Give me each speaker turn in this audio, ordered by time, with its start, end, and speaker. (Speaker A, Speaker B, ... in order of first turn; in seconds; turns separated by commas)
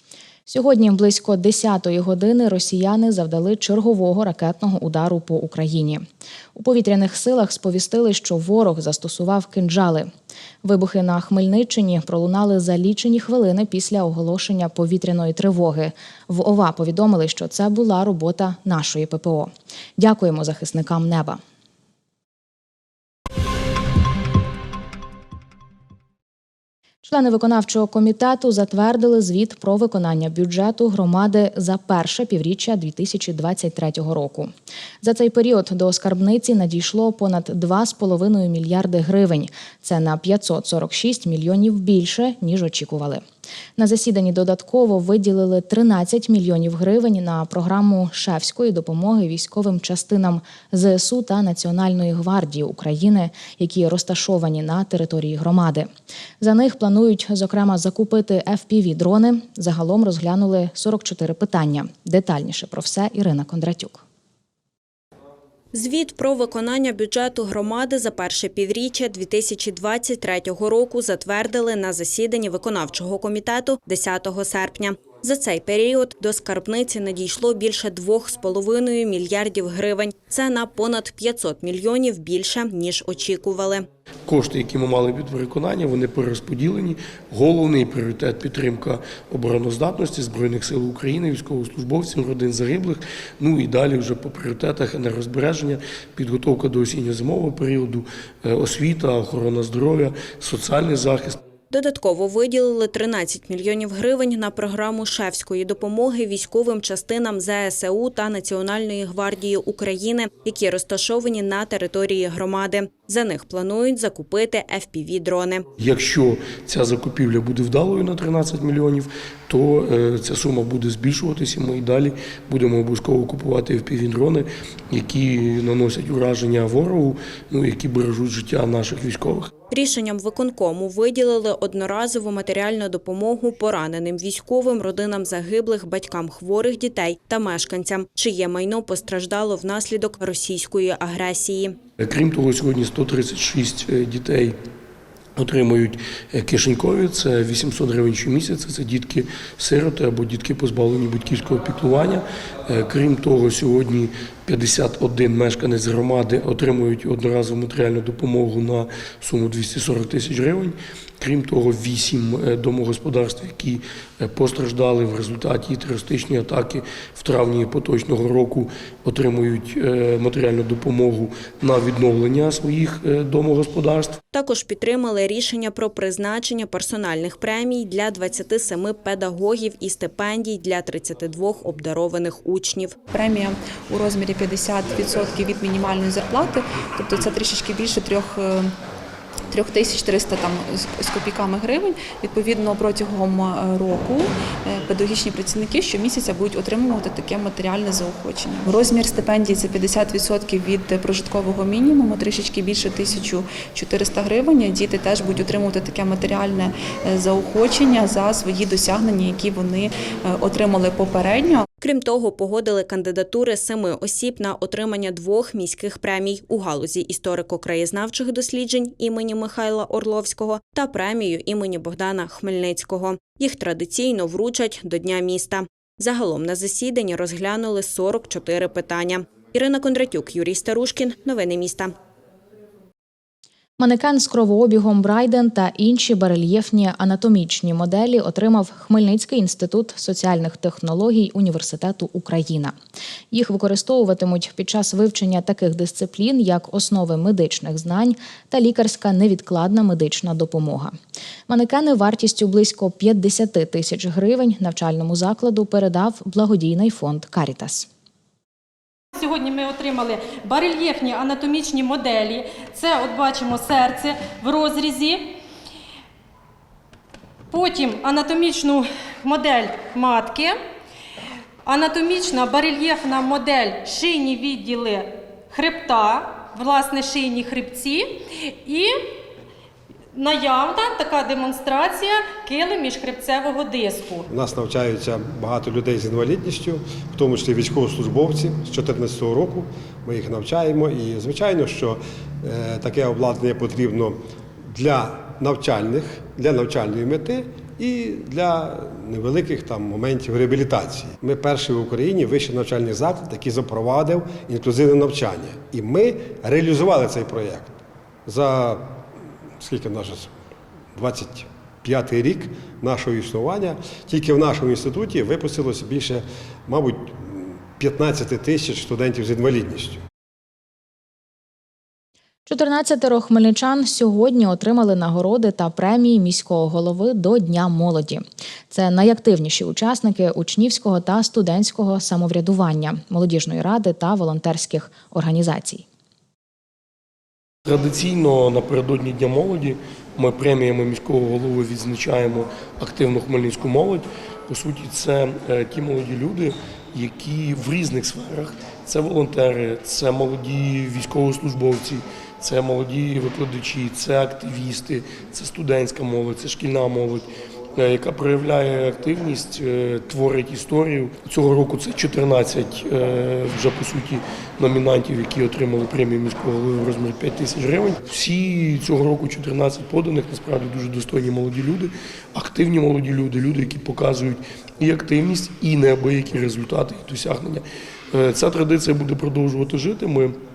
Speaker A: 0.5-10.1, Speaker A: 10.6-21.4, Speaker A: 27.0-43.2, Speaker A: 43.8-55.9, Speaker A: 56.4-64.0, Speaker B: 65.7-83.9, Speaker C: 84.3-101.4, Speaker B: 101.7-115.7, Speaker C: 115.8-129.5, Speaker B: 129.7-141.8, Speaker C: 142.0-144.6, Speaker C: 145.4-174.2, Speaker B: 174.3-182.9, Speaker D: 183.1-188.7, Speaker D: 189.5-211.6, Speaker B: 211.8-231.9, Speaker A: 233.8-242.8, Speaker A: 243.3-250.9, Speaker A: 251.5-257.9, Speaker E: 259.2-265.2, Speaker E: 267.5-270.6, Speaker E: 271.7-278.1, Speaker E: 278.6-278.9, Speaker E: 280.1-284.3, Speaker F: 284.4-294.2, Speaker F: 294.7-307.7, Speaker F: 308.3-308.8, Speaker F: 309.6-310.3, Speaker F: 311.0-320.0, Speaker A: 322.5-335.9, Speaker C: 337.7-380.4